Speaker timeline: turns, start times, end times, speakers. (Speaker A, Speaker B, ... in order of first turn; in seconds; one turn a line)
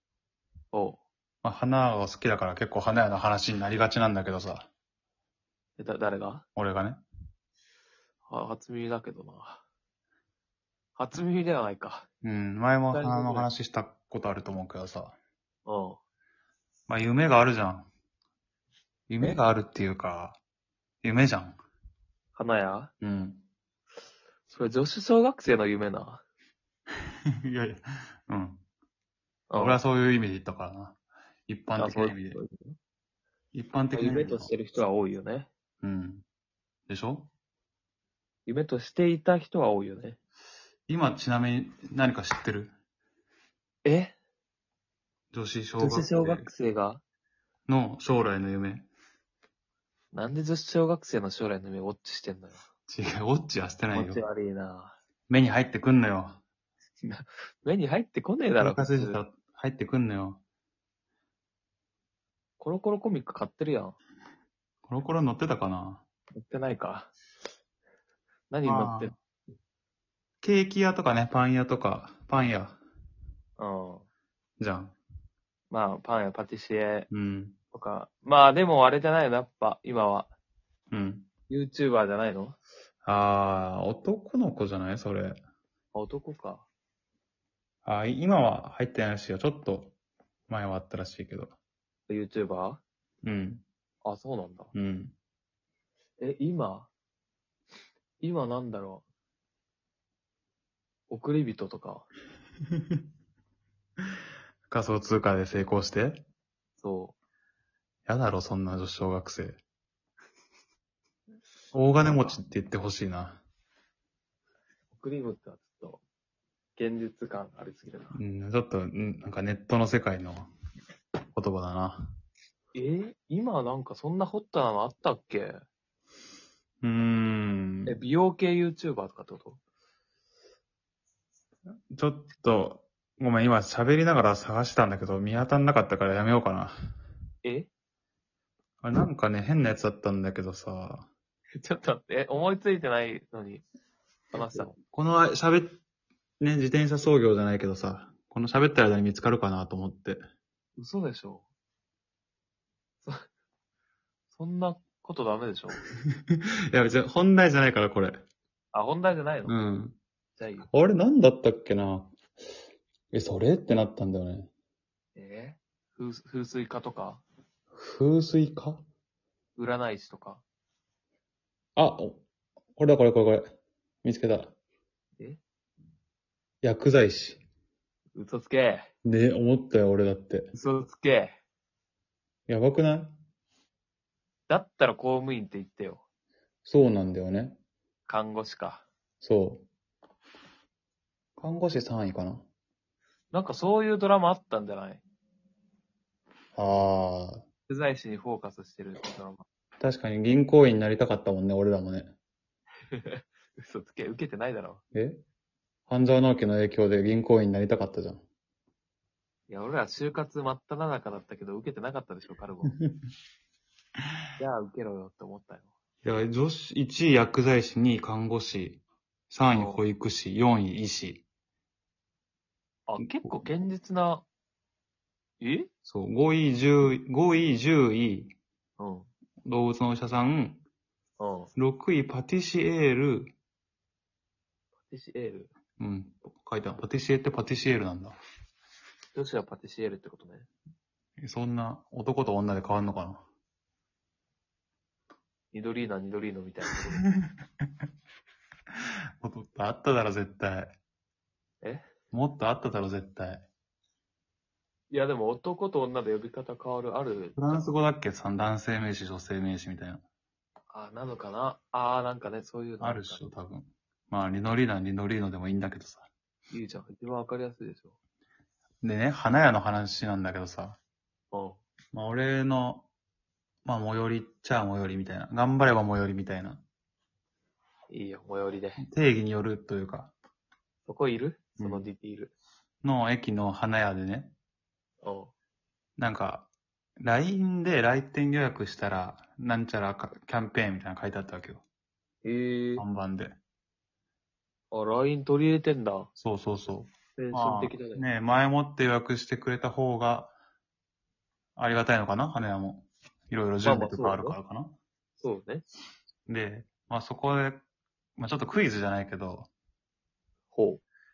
Speaker A: 0.7-1.0
Speaker B: 1.4-4.7
Speaker A: 5.8-6.4
Speaker B: 6.5-7.0
Speaker A: 8.2-9.6
Speaker A: 11.0-12.1
Speaker B: 12.2-15.1
Speaker A: 12.9-13.5
Speaker A: 15.7-16.0
Speaker B: 16.9-17.9
Speaker B: 19.1-20.4
Speaker B: 21.0-21.6
Speaker A: 22.3-22.9
Speaker B: 23.0-23.4
Speaker A: 24.5-26.2
Speaker B: 27.5-28.6
Speaker A: 29.5-29.8
Speaker B: 29.6-32.4
Speaker A: 31.8-32.8
Speaker B: 33.5-34.5
Speaker A: 33.9-35.5
Speaker B: 35.8-36.2
Speaker B: 36.9-37.3
Speaker A: 38.5-40.2
Speaker B: 40.9-42.7
Speaker A: 43.8-44.1
Speaker B: 45.3-46.5
Speaker A: 45.8-47.0
Speaker B: 47.7-48.9
Speaker A: 50.1-52.6
Speaker B: 52.9-54.2
Speaker A: 53.9-55.0
Speaker B: 55.3-56.4
Speaker A: 57.0-59.2
Speaker B: 58.6-60.4
Speaker A: 62.6-64.0
Speaker B: 64.8-66.0
Speaker A: 66.3-67.1
Speaker A: 68.5-69.1
Speaker B: 68.6-69.1
Speaker B: 70.4-72.8
Speaker A: 73.6-74.0
Speaker B: 74.6-75.0
Speaker A: 75.7-77.1
Speaker B: 77.1-77.5
Speaker A: 77.7-80.3
Speaker B: 80.9-81.3
Speaker A: 81.5-82.6
Speaker B: 83.0-85.4
Speaker A: 85.9-86.7
Speaker B: 87.8-89.9
Speaker B: 90.5-91.5
Speaker A: 92.1-92.8
Speaker B: 93.2-93.6
Speaker A: 94.0-94.7
Speaker B: 94.7-95.1
Speaker A: 96.2-96.9
Speaker A: 98.2-99.0
Speaker A: 101.1-102.1
Speaker B: 104.7-106.2
Speaker A: 106.8-107.1
Speaker B: 108.1-109.6
Speaker B: 111.7-113.4
Speaker A: 112.0-112.4
Speaker A: 114.9-116.0
Speaker A: 116.8-118.2
Speaker B: 118.1-120.5
Speaker B: 121.3-122.1
Speaker A: 122.7-125.6
Speaker B: 126.8-127.9
Speaker A: 127.8-129.6
Speaker B: 131.9-136.7
Speaker A: 137.4-137.7
Speaker B: 138.8-141.1
Speaker A: 141.6-143.6
Speaker A: 144.3-144.7
Speaker B: 144.3-145.8
Speaker B: 146.4-150.2
Speaker A: 150.8-151.5
Speaker A: 154.3-155.8
Speaker B: 156.3-158.2
Speaker A: 158.7-159.6
Speaker B: 159.4-160.0
Speaker A: 160.4-160.7
Speaker B: 160.7-162.1
Speaker B: 163.1-164.5
Speaker A: 165.2-167.2
Speaker B: 167.7-168.8
Speaker A: 169.6-170.4
Speaker B: 171.8-172.2
Speaker B: 172.8-173.4
Speaker B: 174.0-174.5
Speaker B: 176.6-177.4
Speaker A: 178.1-178.9
Speaker B: 179.0-180.5
Speaker A: 180.5-181.4
Speaker B: 182.5-183.2
Speaker A: 184.5-186.0
Speaker B: 186.6-187.6
Speaker A: 188.1-188.8
Speaker B: 189.2-189.6
Speaker B: 191.4-192.4
Speaker A: 193.3-195.0
Speaker B: 196.6-197.4
Speaker A: 197.7-199.4
Speaker B: 199.8-202.1
Speaker A: 202.9-204.8
Speaker B: 204.9-205.2
Speaker B: 205.9-208.2
Speaker A: 209.5-212.7
Speaker A: 214.4-215.7
Speaker B: 216.0-221.2
Speaker A: 219.5-219.8
Speaker A: 222.9-224.2
Speaker B: 223.0-223.4
Speaker A: 225.4-225.7
Speaker B: 225.8-228.3
Speaker A: 228.8-229.1
Speaker B: 229.4-230.6
Speaker A: 231.2-231.5
Speaker B: 231.5-233.3
Speaker A: 234.9-235.5
Speaker B: 235.8-238.2
Speaker A: 239.1-240.5
Speaker B: 241.2-243.2
Speaker A: 245.5-247.0
Speaker B: 249.2-250.7
Speaker A: 251.6-251.9
Speaker B: 252.1-253.5
Speaker A: 254.9-257.6
Speaker B: 257.4-260.0
Speaker A: 260.7-263.2
Speaker B: 262.8-266.1
Speaker A: 266.5-267.9
Speaker B: 268.8-270.8
Speaker A: 271.3-271.6
Speaker B: 271.9-272.9
Speaker B: 273.6-276.6
Speaker A: 277.9-278.8
Speaker B: 278.8-280.1
Speaker A: 280.9-282.3
Speaker B: 281.6-281.9
Speaker B: 282.8-284.3
Speaker A: 285.0-285.3
Speaker B: 286.0-286.5
Speaker B: 287.0-291.6
Speaker A: 292.2-292.8
Speaker B: 292.8-293.4
Speaker A: 294.7-296.1
Speaker B: 296.2-300.3
Speaker A: 297.2-298.1
Speaker B: 301.6-304.7
Speaker A: 303.6-304.4
Speaker A: 305.2-305.6
Speaker B: 306.3-307.6
Speaker B: 308.2-309.5
Speaker A: 310.5-310.8